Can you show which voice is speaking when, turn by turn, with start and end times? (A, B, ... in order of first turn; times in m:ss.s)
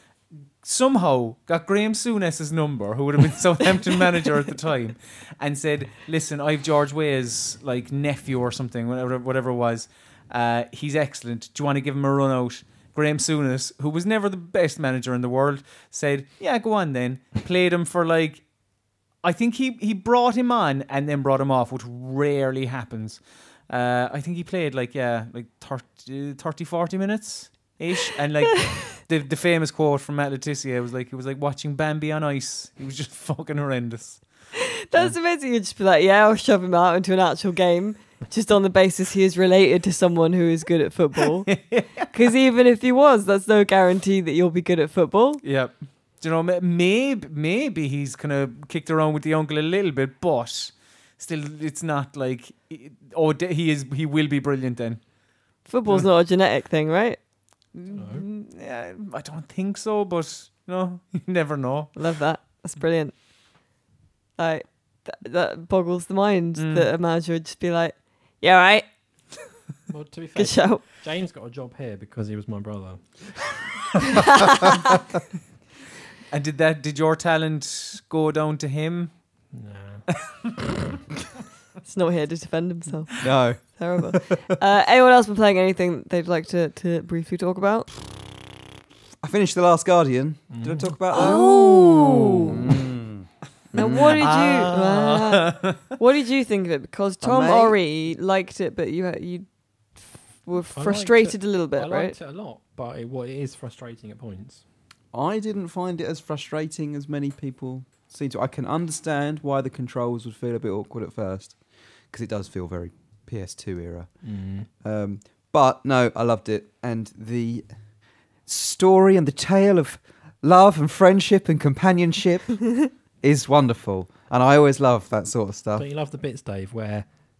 0:00.6-0:18.4 A
0:19.2-0:34.2 A
0:34.6-0:41.6 B
0:41.5-0:42.1 A
0:42.1-0:45.4 B
0:45.4-0:55.0 A
0:55.6-0:57.2 B
0:57.7-1:01.9 A
0:57.9-0:58.2 C
1:01.9-1:03.1 B
1:04.4-1:08.8 B
1:06.6-1:06.9 A
1:09.9-1:13.6 C
1:10.4-1:10.8 B
1:14.1-1:14.6 C
1:14.1-1:14.8 B
1:16.3-1:19.2 A
1:19.5-1:20.0 C
1:20.2-1:20.5 A
1:21.8-1:27.9 B
1:23.2-1:24.4 D
1:29.2-1:31.7 D
1:30.5-1:30.9 C
1:31.1-1:32.6 B
1:31.3-1:32.0 A
1:32.4-1:34.2 D
1:33.7-1:42.1 B
1:34.0-1:35.8 A
1:37.2-1:37.8 D
1:40.7-1:44.6 C
1:45.1-1:51.6 D
1:52.1-1:54.1 D
1:54.2-1:54.7 C
1:54.8-1:57.7 D
1:58.4-2:05.9 D
2:05.8-2:07.1 C